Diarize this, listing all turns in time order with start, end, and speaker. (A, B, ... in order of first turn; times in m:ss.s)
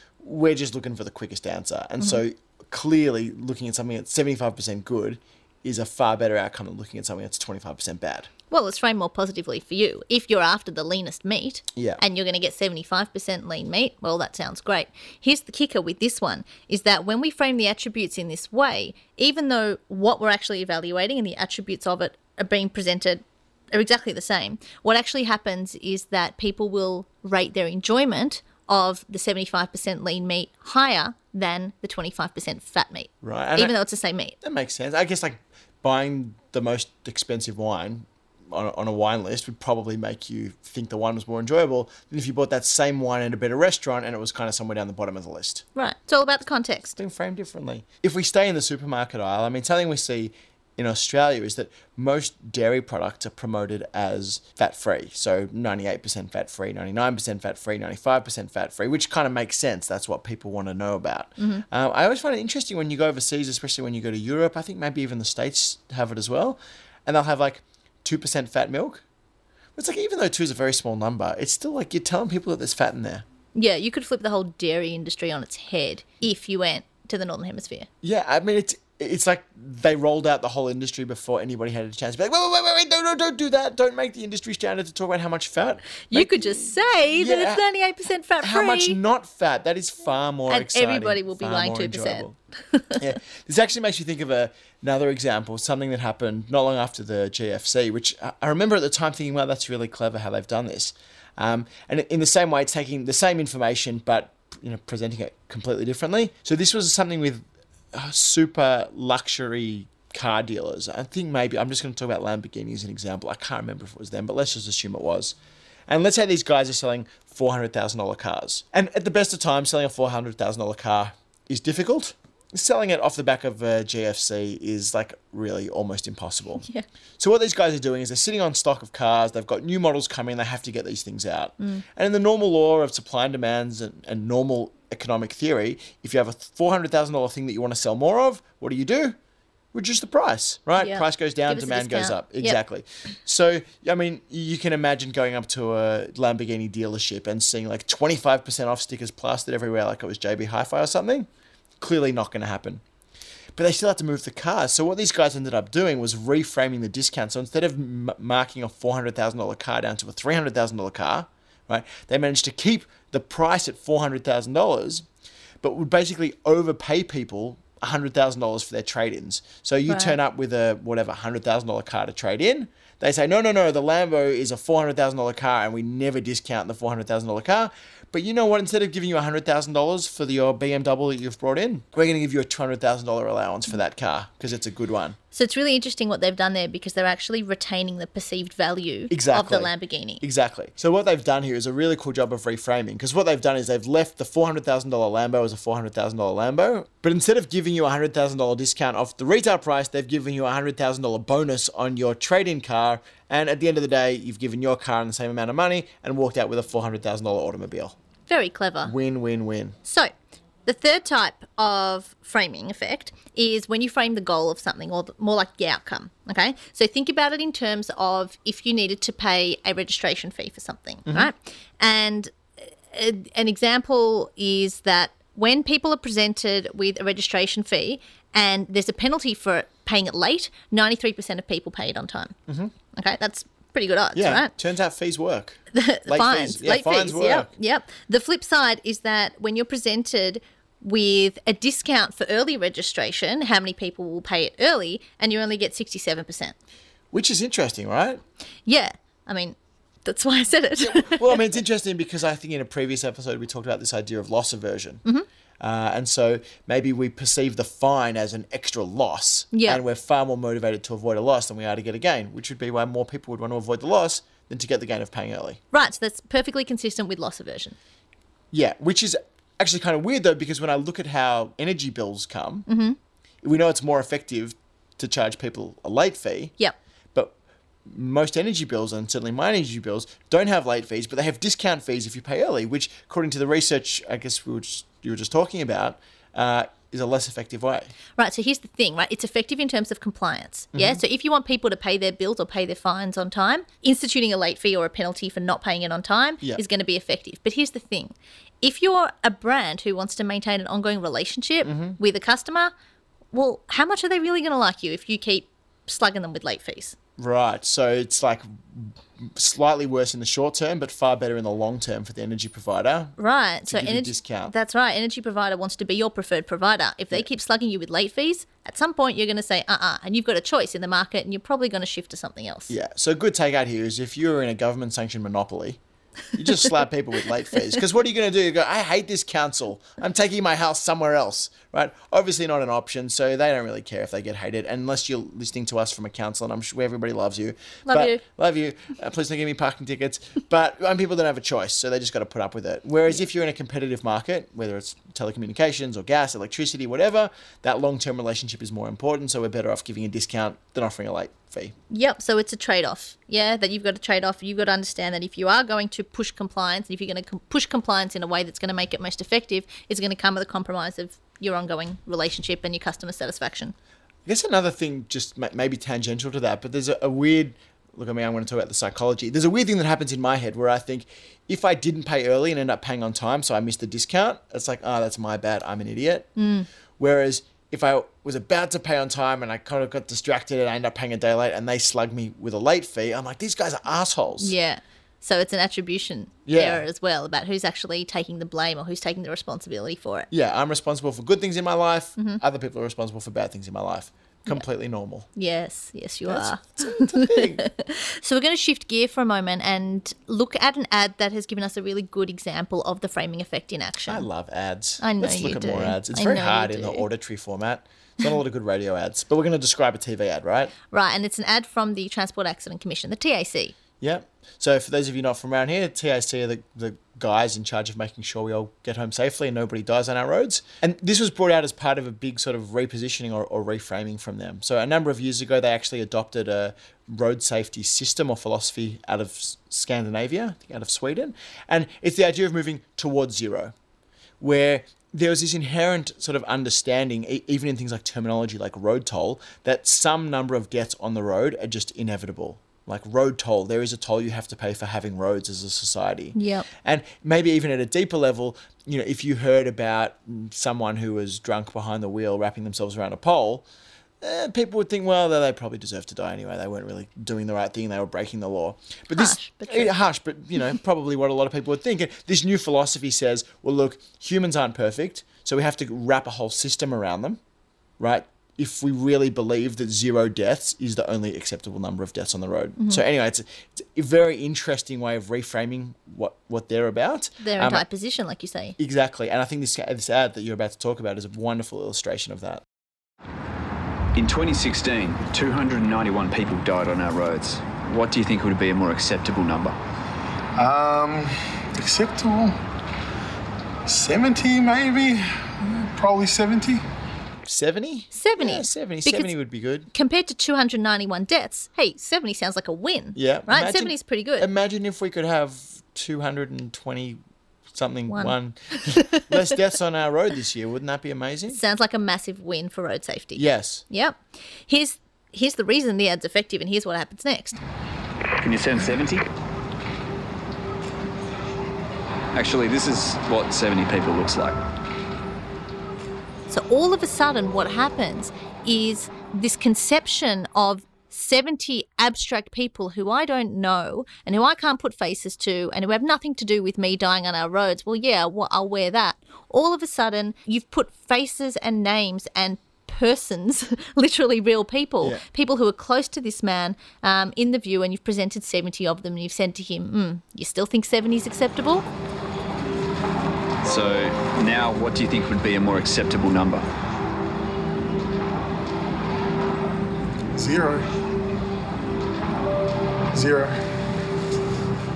0:00.2-0:08.3 A
0:08.5-0:34.4 B
0:11.7-0:12.0 A
0:33.2-0:33.7 A
0:34.4-0:45.6 A
0:45.8-0:47.0 B
0:47.0-1:09.0 A
1:01.4-1:01.6 B
1:09.8-1:13.2 A
1:13.5-1:17.9 B
1:18.0-1:27.6 A
1:26.1-1:29.0 B
1:28.4-1:32.3 A
1:30.5-1:33.0 B
1:33.0-1:55.4 A
1:55.9-2:06.6 A
2:07.2-2:19.2 A
2:19.7-2:31.3 A
2:20.8-2:22.6 B
2:31.8-2:32.8 A
2:33.6-2:45.0 A
2:45.6-3:05.2 A
2:49.9-2:50.1 B
3:05.3-3:10.2 B
3:09.1-3:28.0 A
3:28.3-3:28.9 B
3:28.8-3:29.8 A
3:29.8-3:30.1 B
3:30.6-3:52.3 B
3:52.5-3:52.7 A
3:52.9-3:54.5 B
3:54.1-3:57.5 A
3:55.7-4:06.5 B
4:07.1-4:08.2 A
4:08.6-4:11.4 B
4:10.8-4:15.0 A
4:15.6-4:25.6 A
4:19.5-4:19.8 B
4:25.7-4:27.8 B
4:28.5-4:32.7 A
4:32.7-4:33.0 B
4:33.4-4:36.5 A
4:37.8-4:47.9 A
4:48.2-5:02.7 B
4:50.7-4:51.0 A
5:01.6-5:02.0 A
5:03.3-5:07.0 B
5:07.2-5:14.5 A
5:13.2-5:22.7 B
5:22.7-5:25.8 A
5:26.3-5:51.7 A
5:37.8-5:38.2 B
5:51.9-6:03.7 B
6:04.2-6:16.3 A
6:16.4-6:16.7 B
6:17.0-6:24.6 A
6:24.4-6:30.3 B
6:26.4-6:26.8 A
6:30.3-6:35.3 A
6:32.2-6:32.4 B
6:35.4-6:44.3 B
6:36.3-6:37.6 A
6:44.1-6:50.7 A
6:45.0-6:47.0 B
6:50.9-6:53.8 B
6:54.0-7:13.7 A
7:14.4-7:33.6 A
7:26.3-7:26.7 B
7:34.2-7:47.4 A
7:39.1-7:39.9 B
7:48.0-7:57.8 A
7:57.4-7:58.8 B
7:58.8-8:02.6 A
8:04.1-8:09.8 C
8:10.6-8:12.6 D
8:13.8-8:16.8 D
8:17.4-8:19.9 A
8:18.1-8:19.3 B
8:19.9-8:24.5 B
8:23.1-8:27.2 A
8:27.7-8:31.6 A
8:28.1-8:29.4 B
8:31.5-8:37.6 B
8:33.3-8:33.8 A
8:38.4-8:39.2 C
8:42.3-8:44.6 C
8:46.5-9:11.9 B
9:13.6-9:16.6 C
9:20.3-9:20.9 D
9:23.1-9:23.6 D